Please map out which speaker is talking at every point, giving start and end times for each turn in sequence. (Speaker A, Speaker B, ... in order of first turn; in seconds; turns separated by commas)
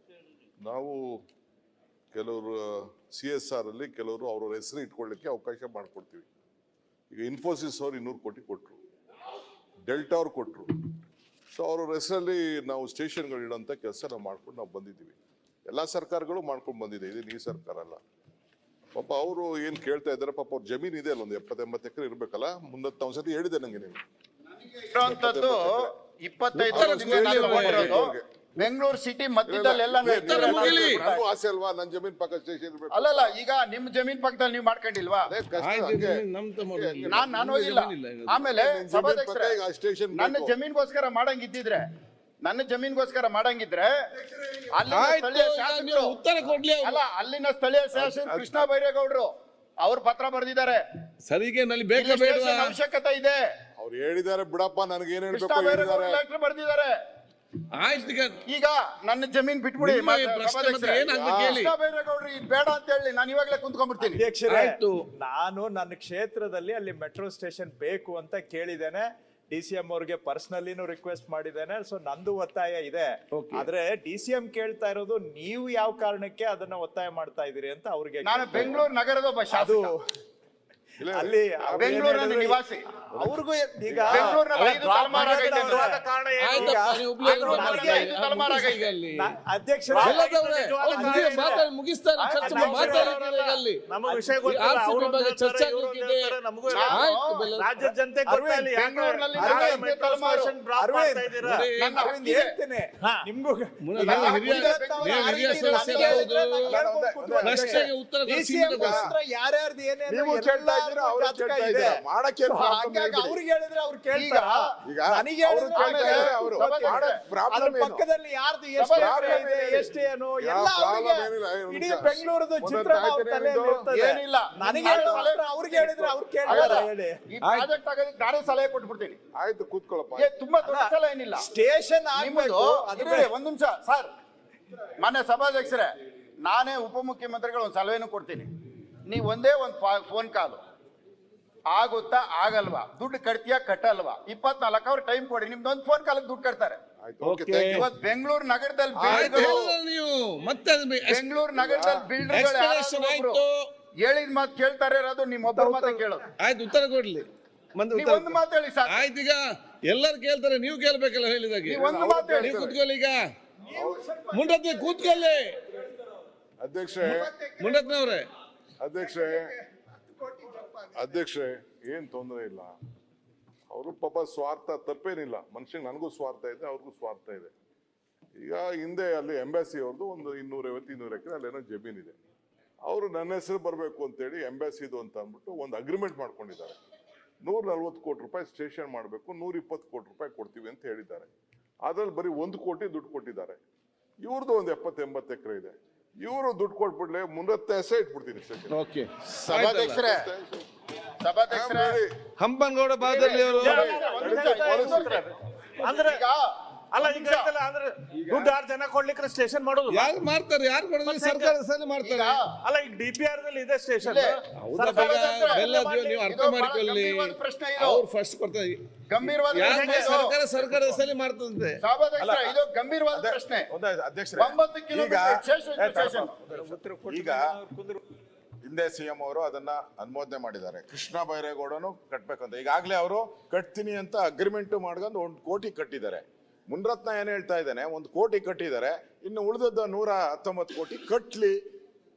Speaker A: 0.6-1.0, Speaker A: 2.1-6.3, Speaker A: 7.1-8.8, Speaker A: 9.9-10.7, Speaker A: 11.5-15.2, Speaker A: 15.7-18.0, Speaker A: 18.9-24.0, Speaker B: 24.6-31.3, Speaker A: 25.0-25.9, Speaker C: 26.5-28.0, Speaker A: 26.7-28.4, Speaker A: 29.4-33.4, Speaker C: 30.1-31.0, Speaker B: 32.9-35.3, Speaker A: 35.3-37.2, Speaker C: 35.5-38.4, Speaker B: 37.1-39.6, Speaker A: 38.5-40.5, Speaker B: 40.1-41.8, Speaker B: 42.4-44.0, Speaker B: 44.7-46.2, Speaker C: 44.9-47.0, Speaker B: 46.8-49.3, Speaker A: 47.9-48.7, Speaker B: 49.8-50.8, Speaker C: 51.2-52.8, Speaker B: 51.9-53.5, Speaker A: 53.8-56.2, Speaker B: 55.3-56.9, Speaker C: 57.8-58.4, Speaker B: 58.5-64.2, Speaker C: 59.8-61.7, Speaker A: 61.1-61.5, Speaker D: 64.0-78.9, Speaker C: 64.5-65.0, Speaker C: 73.3-73.7, Speaker B: 78.2-79.9, Speaker D: 79.5-80.0, Speaker A: 81.0-82.2, Speaker D: 81.1-82.6, Speaker B: 81.8-82.8, Speaker D: 83.1-86.0, Speaker B: 84.1-85.9, Speaker E: 85.0-88.0, Speaker C: 86.4-89.3, Speaker D: 86.5-88.1, Speaker B: 87.2-88.9, Speaker D: 89.1-90.2, Speaker E: 89.9-91.7, Speaker C: 90.0-93.8, Speaker D: 90.9-93.2, Speaker E: 92.3-101.7, Speaker D: 94.1-94.7, Speaker C: 94.5-97.9, Speaker B: 96.7-97.5, Speaker D: 98.2-98.7, Speaker B: 98.7-100.5, Speaker D: 99.3-99.8, Speaker D: 100.8-127.2, Speaker C: 101.4-102.0, Speaker B: 101.8-102.5, Speaker C: 103.8-106.8, Speaker B: 104.0-106.3, Speaker F: 106.6-107.9, Speaker C: 107.4-109.1, Speaker F: 108.7-109.1, Speaker F: 110.1-113.4, Speaker B: 114.1-114.7, Speaker F: 114.8-118.0, Speaker B: 115.7-117.2, Speaker B: 118.8-119.4, Speaker F: 118.9-119.9, Speaker A: 120.4-123.8, Speaker B: 123.9-129.2, Speaker C: 127.4-127.7, Speaker A: 129.3-130.3, Speaker B: 130.1-131.4, Speaker D: 130.6-133.3, Speaker B: 132.1-134.1, Speaker B: 135.0-135.9, Speaker B: 136.4-138.5, Speaker B: 139.1-140.6, Speaker B: 141.7-146.8, Speaker A: 147.0-147.9, Speaker C: 147.2-147.8, Speaker B: 147.7-149.6, Speaker A: 148.9-149.8, Speaker C: 149.0-151.3, Speaker B: 151.1-153.4, Speaker A: 151.5-152.1, Speaker C: 152.3-153.5, Speaker B: 154.0-156.2, Speaker C: 155.4-161.9, Speaker B: 157.9-159.0, Speaker B: 161.6-162.6, Speaker A: 161.8-162.8, Speaker C: 162.4-163.2, Speaker D: 163.7-165.3, Speaker A: 163.7-164.0, Speaker C: 164.3-165.6, Speaker A: 166.6-167.3, Speaker D: 167.1-167.9, Speaker C: 167.5-168.3, Speaker A: 168.8-169.5, Speaker D: 170.3-170.8, Speaker A: 170.9-172.8, Speaker A: 173.7-177.5, Speaker A: 178.4-182.1, Speaker A: 182.8-186.8, Speaker A: 187.4-191.3, Speaker A: 191.8-193.6, Speaker A: 194.2-198.8, Speaker C: 198.7-200.1, Speaker B: 199.4-200.2, Speaker A: 200.0-200.7, Speaker B: 201.2-202.0, Speaker A: 201.5-202.1, Speaker C: 202.4-203.8, Speaker B: 203.1-205.3, Speaker A: 203.1-205.1, Speaker E: 203.5-206.2, Speaker B: 205.8-206.4, Speaker E: 206.9-210.1, Speaker B: 207.0-207.5, Speaker C: 209.9-212.4, Speaker E: 211.0-211.6, Speaker B: 212.0-212.5, Speaker E: 212.6-216.3, Speaker B: 214.0-215.7, Speaker C: 214.5-218.8, Speaker B: 216.3-218.1, Speaker B: 219.1-220.4, Speaker C: 219.4-221.8, Speaker E: 219.5-220.3, Speaker B: 221.8-223.7, Speaker F: 222.2-222.6, Speaker F: 223.1-227.6, Speaker B: 224.4-226.3, Speaker D: 225.8-228.0, Speaker F: 228.6-241.6